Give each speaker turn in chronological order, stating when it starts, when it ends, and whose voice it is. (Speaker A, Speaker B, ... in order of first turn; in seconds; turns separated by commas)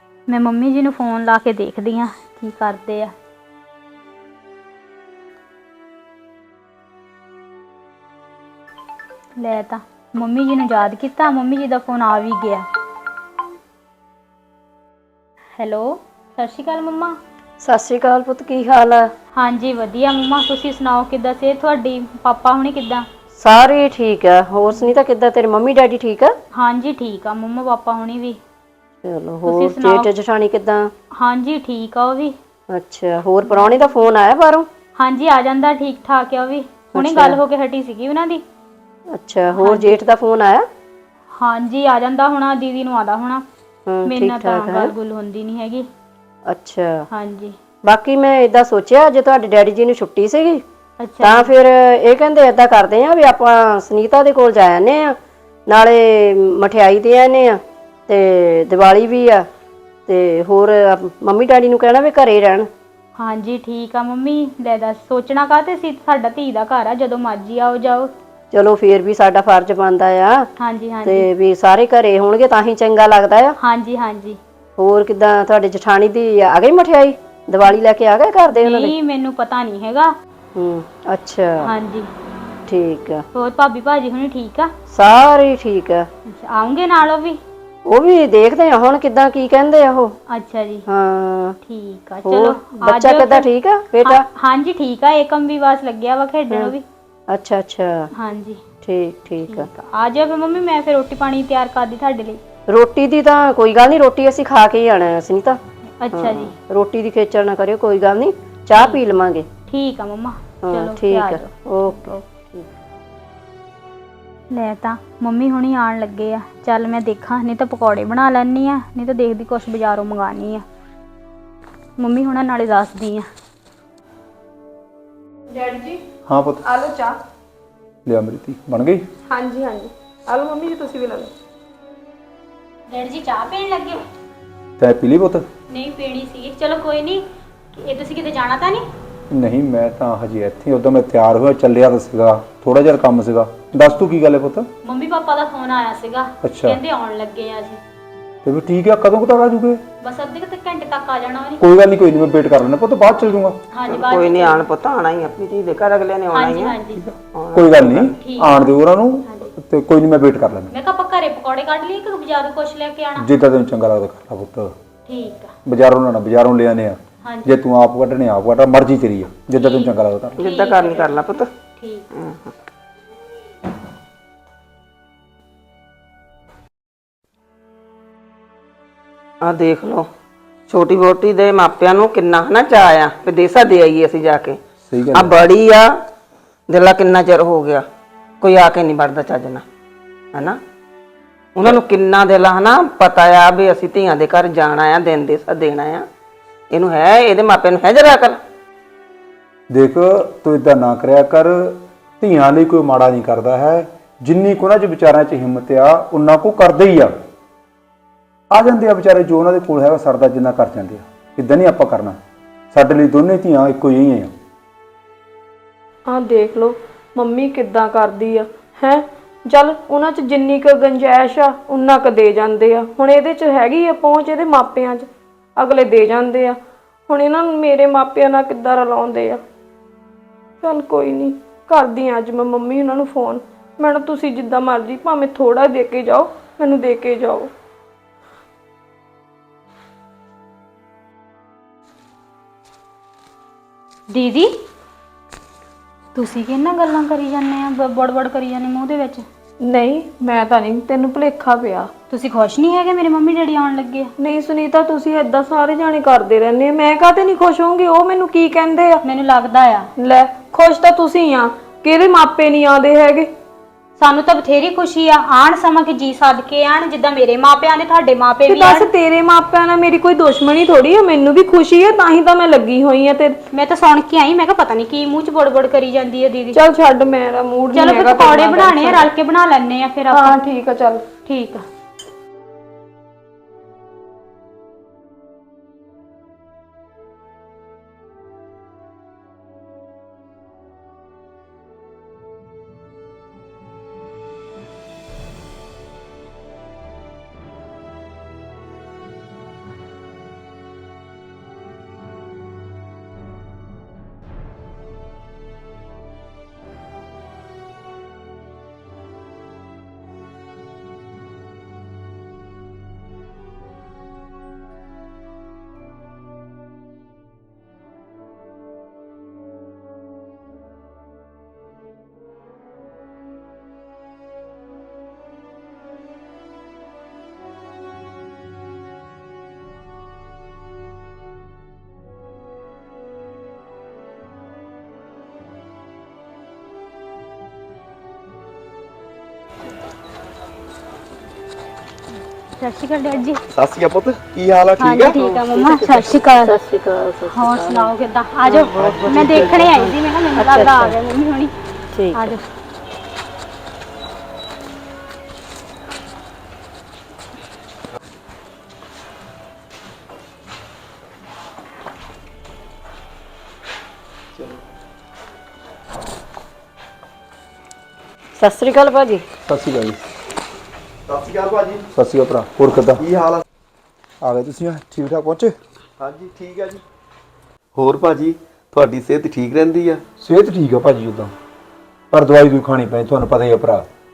Speaker A: 0.3-3.1, Speaker A: 9.4-12.7, Speaker A: 15.6-17.2, Speaker B: 17.6-19.1, Speaker A: 19.4-23.1, Speaker B: 23.4-26.3, Speaker A: 26.5-28.4, Speaker B: 29.0-30.9, Speaker A: 29.5-30.1, Speaker A: 31.1-32.4, Speaker B: 32.7-34.7, Speaker A: 33.5-33.9, Speaker A: 35.0-38.4, Speaker B: 37.0-37.4, Speaker B: 39.1-40.7, Speaker A: 39.5-40.0, Speaker A: 41.4-43.5, Speaker B: 43.9-44.9, Speaker A: 44.1-45.9, Speaker B: 46.5-47.1, Speaker A: 47.1-47.6, Speaker B: 47.8-50.6, Speaker A: 51.0-51.5, Speaker B: 51.2-55.2, Speaker B: 55.7-59.5, Speaker B: 60.1-62.7, Speaker A: 63.2-68.1, Speaker B: 68.5-70.5, Speaker A: 70.6-71.3, Speaker B: 71.0-73.6, Speaker A: 73.6-74.4, Speaker B: 74.8-79.0, Speaker A: 78.5-80.1, Speaker B: 80.5-81.7, Speaker A: 81.6-82.1, Speaker B: 82.7-83.2, Speaker A: 83.3-84.7, Speaker B: 84.9-86.1, Speaker A: 86.3-87.4, Speaker B: 87.9-90.2, Speaker A: 90.3-90.9, Speaker B: 90.9-91.6, Speaker A: 91.7-93.5, Speaker B: 92.2-94.2, Speaker A: 94.0-96.8, Speaker B: 97.3-98.1, Speaker A: 98.2-98.6, Speaker B: 98.8-99.7, Speaker A: 99.5-102.4, Speaker B: 102.7-105.6, Speaker A: 106.0-106.5, Speaker B: 106.1-109.5, Speaker A: 108.8-109.0, Speaker A: 109.7-111.4, Speaker B: 110.7-112.7, Speaker A: 114.5-120.6, Speaker A: 122.0-123.3, Speaker C: 125.5-126.0, Speaker D: 126.3-126.6, Speaker C: 126.7-127.1, Speaker D: 128.1-129.0, Speaker C: 129.3-131.3, Speaker A: 132.9-134.0, Speaker D: 134.8-135.5, Speaker A: 135.7-138.8, Speaker D: 139.3-144.7, Speaker A: 144.8-147.8, Speaker D: 146.4-146.8, Speaker D: 148.4-149.8, Speaker A: 150.0-151.6, Speaker D: 151.6-153.6, Speaker A: 153.7-154.6, Speaker E: 153.9-156.8, Speaker A: 156.3-157.0, Speaker D: 156.9-160.7, Speaker E: 157.3-158.2, Speaker A: 158.2-158.7, Speaker A: 160.7-163.3, Speaker D: 163.2-164.7, Speaker A: 165.1-165.5, Speaker D: 165.7-170.4, Speaker A: 167.2-167.5, Speaker A: 169.5-171.2, Speaker E: 170.4-171.5, Speaker A: 171.8-172.1, Speaker E: 172.1-172.5, Speaker E: 179.4-180.1, Speaker E: 180.7-184.6, Speaker D: 184.9-185.4, Speaker E: 185.1-185.9, Speaker E: 186.7-187.8, Speaker E: 188.4-189.6, Speaker E: 190.3-190.6, Speaker E: 191.6-196.1, Speaker E: 196.7-198.4, Speaker D: 199.7-207.1, Speaker D: 208.5-212.2, Speaker D: 212.7-214.3, Speaker C: 216.1-226.6, Speaker C: 227.1-229.4, Speaker C: 230.6-237.5, Speaker A: 244.1-244.5, Speaker A: 246.1-249.2, Speaker C: 249.6-251.9, Speaker A: 252.1-254.1, Speaker C: 254.2-259.0, Speaker A: 259.0-259.9, Speaker C: 260.0-263.3, Speaker A: 264.0-268.9, Speaker C: 268.5-273.4, Speaker A: 273.5-276.6, Speaker C: 276.5-279.1, Speaker A: 277.7-280.4, Speaker C: 280.1-281.1, Speaker A: 281.3-281.6, Speaker A: 342.6-343.4, Speaker F: 343.5-345.2, Speaker A: 344.8-346.5, Speaker B: 345.2-347.9, Speaker A: 347.3-351.5, Speaker B: 348.4-351.0, Speaker F: 348.8-349.6, Speaker B: 351.9-352.3, Speaker A: 352.1-352.5, Speaker B: 368.4-369.2, Speaker D: 369.5-370.0, Speaker F: 371.1-371.9, Speaker D: 371.9-373.0, Speaker F: 373.0-373.4, Speaker D: 374.2-375.6, Speaker F: 376.0-376.8, Speaker F: 377.8-380.0, Speaker D: 380.2-381.3, Speaker D: 382.1-383.9